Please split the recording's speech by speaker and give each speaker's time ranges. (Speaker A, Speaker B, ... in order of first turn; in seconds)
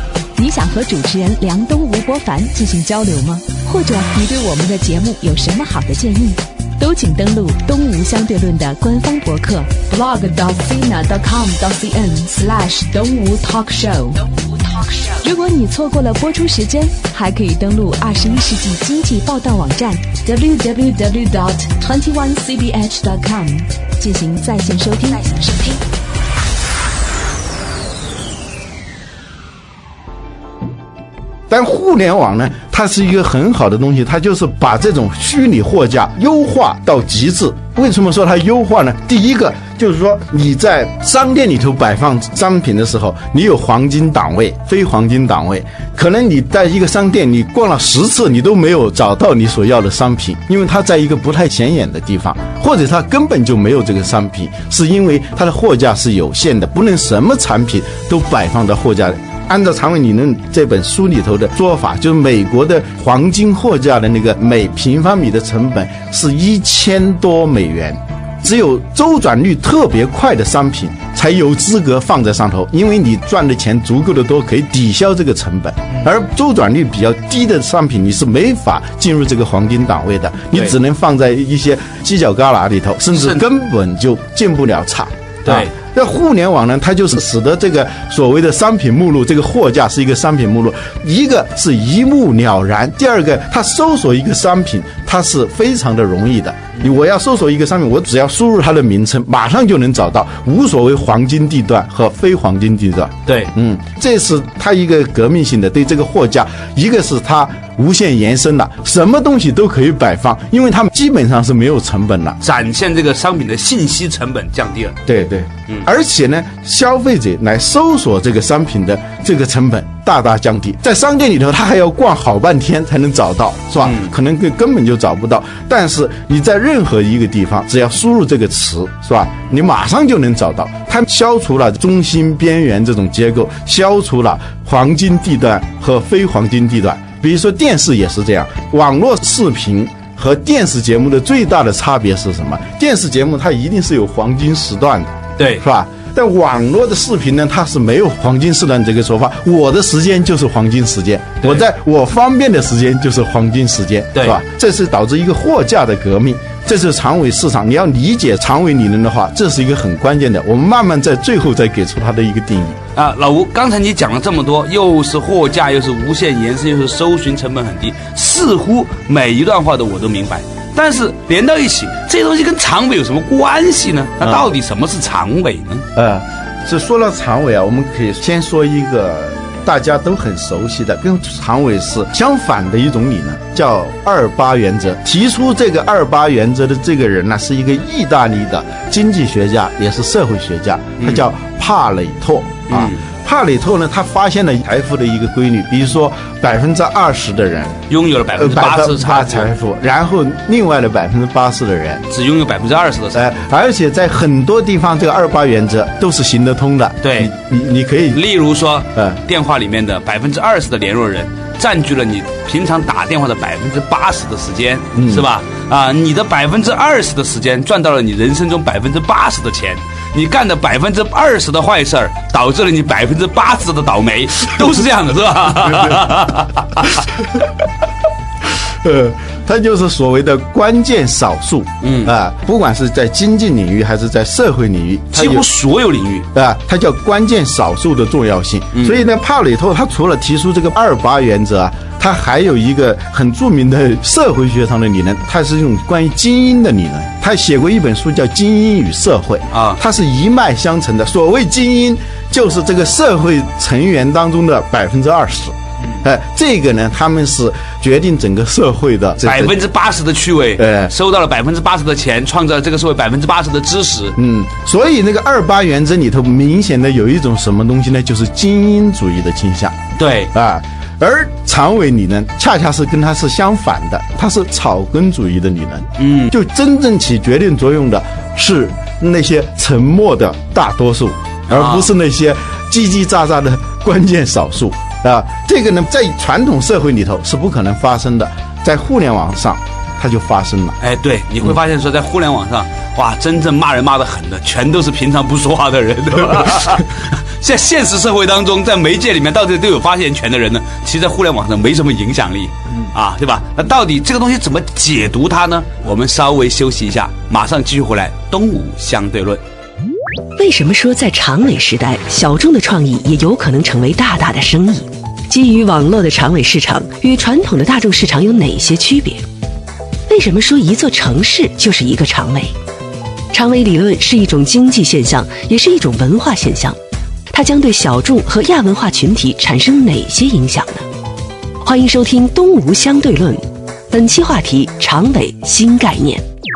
Speaker A: 0.3-14.2, 14.9-25.8
Speaker B: 31.5-112.4, 115.0-162.8, 174.2-174.5, 175.9-197.8, 198.3-202.1, 203.1-208.2, 214.9-215.3, 225.7-226.1, 227.1-227.6, 228.4-235.5, 236.3-259.6, 260.6-260.9, 264.1-269.8, 270.3-290.8
Speaker C: 83.1-83.4, 85.4-85.7, 112.4-115.0, 123.8-124.1, 145.4-145.6, 154.1-154.4, 162.9-175.8, 191.0-191.2, 192.7-193.0, 197.9-199.5, 202.1-203.3, 207.0-207.3, 208.1-227.0, 231.8-232.1, 235.1-236.3, 238.7-239.0, 249.5-249.8, 259.2-264.1, 270.0-270.3, 276.0-276.3, 281.5-281.9, 290.8-309.4
Speaker D: 310.4-319.2, 320.1-322.5, 323.3-326.8, 327.3-330.9, 331.6-336.2